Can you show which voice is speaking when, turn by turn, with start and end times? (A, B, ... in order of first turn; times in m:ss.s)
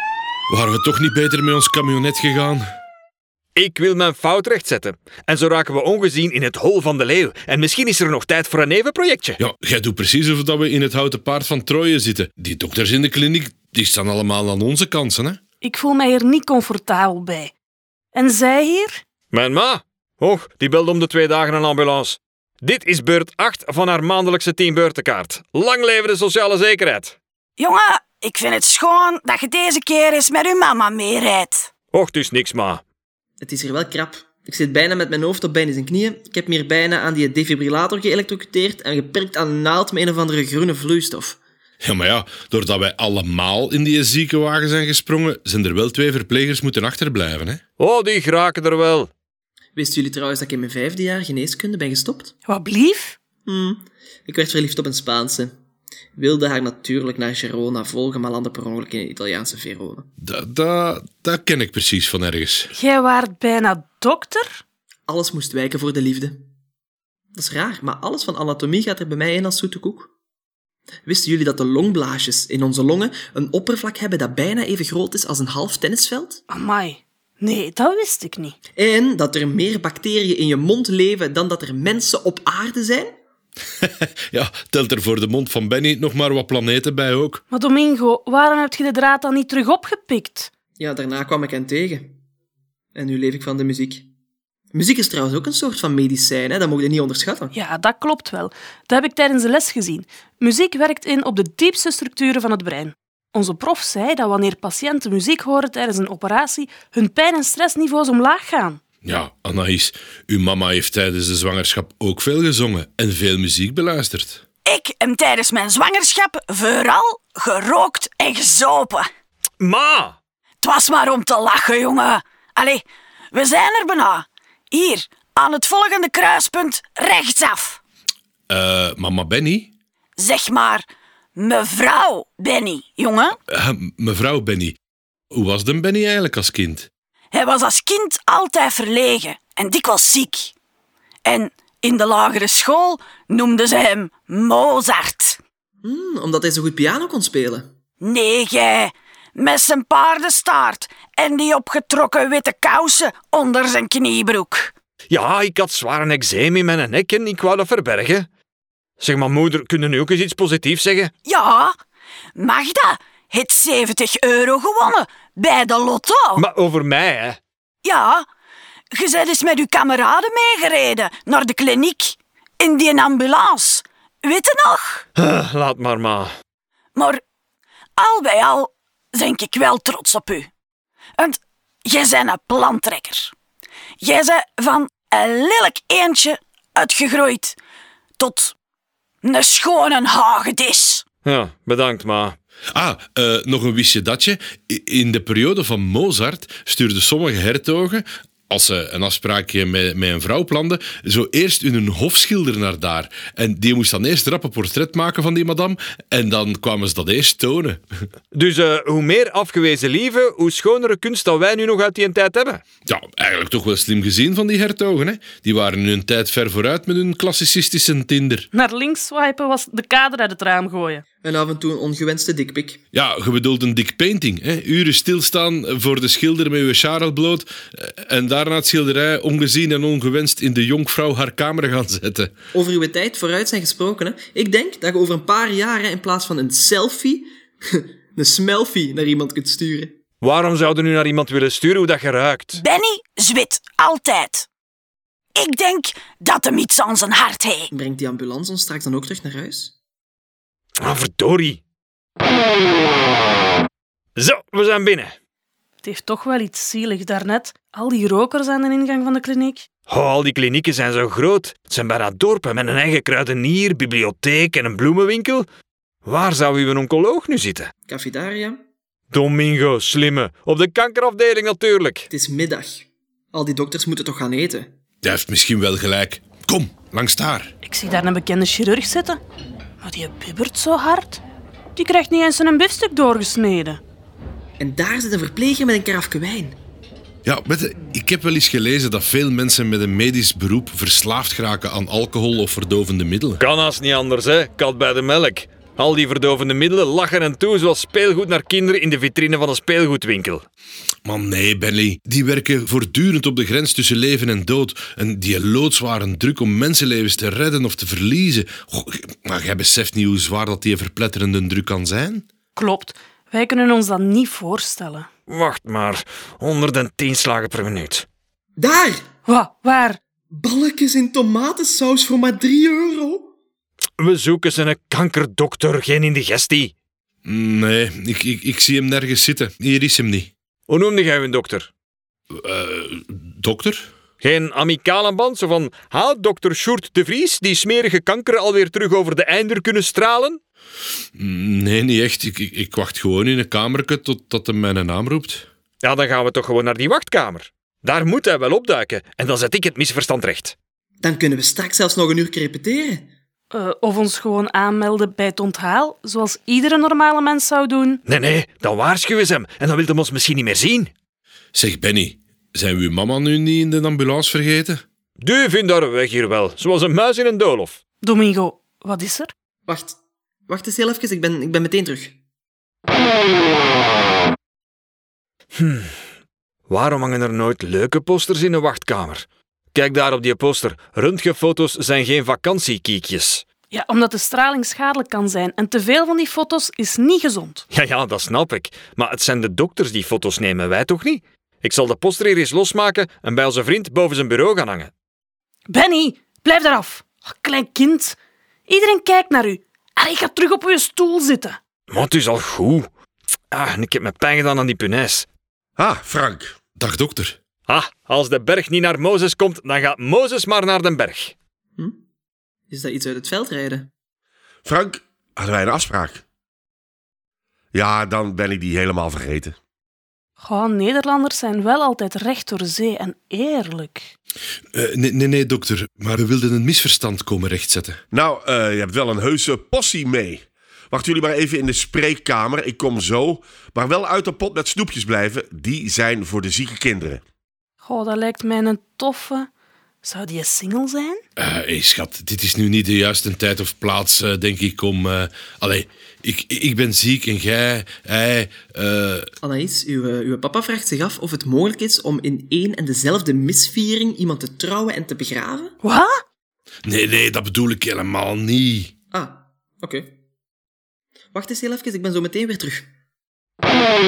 0:00.5-0:02.6 A
0:03.5-0:09.4 B
0:09.4-0:15.4 A
0:15.6-0:17.5 C
0:18.1-0:19.0 C
0:19.3-0:27.2 B
0:27.6-0:31.7 D
0:31.9-0:32.8 B
0:33.4-0:41.4 E
0:41.8-0:47.6 A
0:47.8-0:49.1 B
0:49.7-0:52.3 E
0:52.5-0:53.2 C
0:53.4-0:55.5 E
0:56.2-1:00.1 E
1:00.2-1:02.7 A
1:02.7-1:04.6 C
1:05.1-1:06.4 E
1:07.3-1:10.1 E
1:11.0-1:16.4 E
1:16.5-1:18.6 C
1:18.8-1:23.2 E
1:23.8-1:27.4 A
1:27.5-1:30.5 C
1:30.8-1:32.1 E
1:32.9-1:34.1 E
1:34.7-1:37.5 E
1:37.5-1:48.8 C
1:49.0-1:54.4 A
1:54.6-1:59.1 D
1:59.6-2:00.2 B
2:00.6-2:07.8 D
2:08.5-2:09.7 A
2:10.2-2:13.4 D
2:13.5-2:14.8 A
2:15.3-2:16.9 A
2:17.3-2:20.5 D
2:21.2-2:25.4 D
2:25.8-2:27.7 E
2:28.0-2:34.7 D
2:35.1-2:38.3 B
2:39.0-2:41.1 B
2:41.2-2:41.8 D
2:42.4-2:46.4 D
2:46.4-2:47.4 B
2:47.8-2:48.3 D
2:48.9-2:55.0 D
2:55.2-2:56.3 B
2:57.0-2:57.2 D
2:58.0-3:00.5 D
3:01.2-3:03.3 D
3:04.0-3:07.6 D
3:08.2-3:08.5 D
3:09.2-3:11.0 D
3:11.2-3:12.4 B
3:12.7-3:27.8 A
3:28.3-3:32.6 B
3:32.8-3:38.5 A
3:38.5-3:41.0 C
3:41.2-3:42.8 E
3:42.9-3:52.3 A
3:52.5-4:00.0 E
4:00.2-4:02.6 B
4:02.6-4:04.5 D
4:05.3-4:07.7 D
4:07.7-4:09.7 E
4:10.8-4:11.6 B
4:14.2-4:15.1 B
4:15.8-4:19.6 C
4:19.9-4:25.4 B
4:26.0-4:27.7 B
4:27.9-4:28.6 E
4:29.1-4:32.1 B
4:32.1-4:34.7 E
4:35.0-4:37.5 A
4:37.6-4:39.2 C
4:39.8-4:41.2 C
4:41.7-4:43.8 C
4:44.6-4:46.6 E
4:47.2-4:53.4 A
4:53.4-5:00.4 B
5:01.0-5:12.2 A
5:12.6-5:15.1 C
5:15.3-5:18.0 B
5:18.6-5:19.0 E
5:19.2-5:20.0 C
5:20.3-5:23.3 E
5:24.0-5:26.7 B
5:27.2-5:30.3 A
5:30.7-5:31.7 B
5:32.3-5:33.9 A
5:34.2-5:40.4 B
5:41.1-5:45.5 A
5:45.8-5:50.5 B
5:51.0-5:53.1 E
5:53.5-5:58.0 C
5:58.0-6:00.9 B
6:01.5-6:04.8 A
6:05.2-6:07.8 B
6:08.0-6:09.3 C
6:09.7-6:10.0 E
6:10.5-6:12.1 E
6:15.5-6:15.9 B
6:16.7-6:23.4 B
6:23.7-6:27.6 C
6:27.7-6:34.9 B
6:35.7-6:38.2 C
6:38.7-6:41.6 C
6:41.9-6:42.9 B
6:43.5-6:45.2 B
6:45.8-6:46.5 F
6:46.8-6:47.4 A
6:47.7-6:51.3 B
6:52.7-6:53.9 E
6:54.6-6:56.2 F
6:57.7-6:59.6 F
7:00.4-7:04.1 C
7:04.7-7:08.0 A
7:08.1-7:17.2 F
7:17.8-7:19.5 C
7:20.0-7:21.2 C
7:21.4-7:29.3 A
7:29.4-7:35.7 E
7:35.8-7:36.2 C
7:36.8-7:38.9 A
7:39.1-7:40.1 E
7:41.3-7:42.9 E